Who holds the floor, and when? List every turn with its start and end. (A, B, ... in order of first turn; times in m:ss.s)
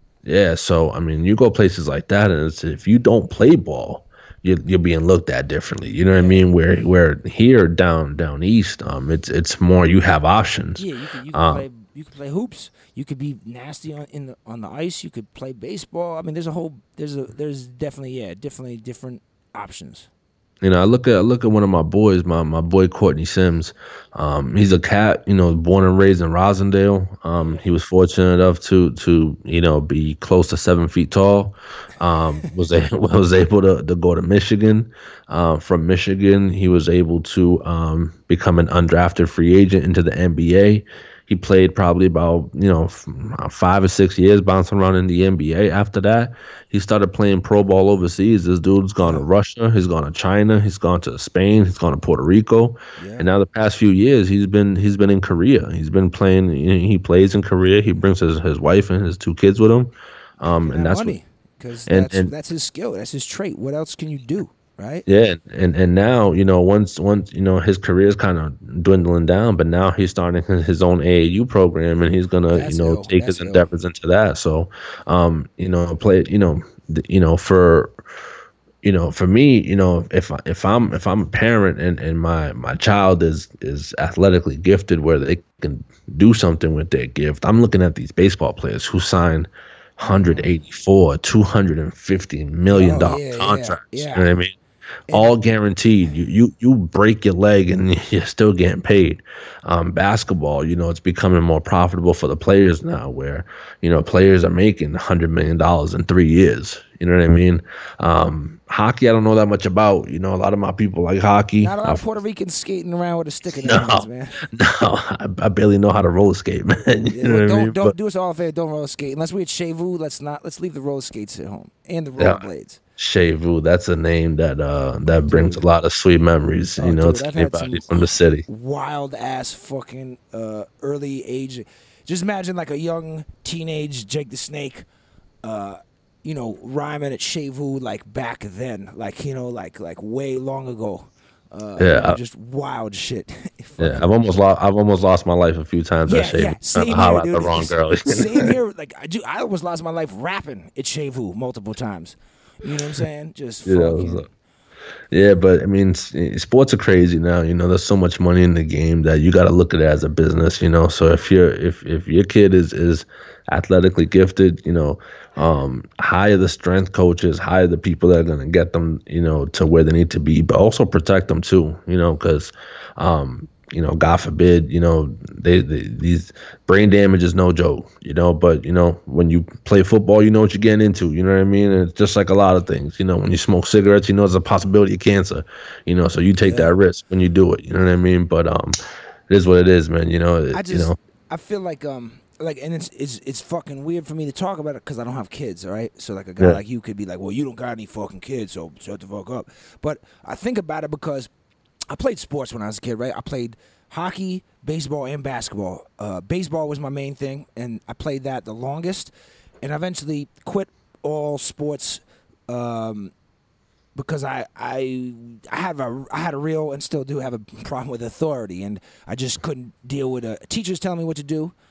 0:00.2-0:11.6 A
0:06.1-0:06.4 B
0:10.8-0:20.1 B
0:20.6-1:01.2 A
0:27.3-0:27.6 B
0:53.0-0:53.3 B
1:00.4-1:05.0 B
1:01.9-1:02.3 A
1:05.0-1:17.9 A
1:12.5-1:13.7 B
1:18.8-1:34.5 A
1:30.1-1:30.5 B
1:32.6-1:34.4 B
1:35.1-1:52.0 A
1:51.6-1:54.4 B
1:53.5-1:57.9 A
1:57.1-2:02.8 B
2:03.0-2:08.4 A
2:05.0-2:05.6 B
2:06.8-2:14.8 B
2:15.4-2:24.1 B
2:21.8-2:22.2 A
2:23.8-2:28.5 A
2:26.0-2:34.3 B
2:33.6-2:34.2 A
2:35.1-3:08.8 A
3:06.4-3:06.7 B
3:09.3-3:11.0 A
3:10.5-3:21.3 B
3:21.9-3:33.1 B
3:33.9-3:41.5 B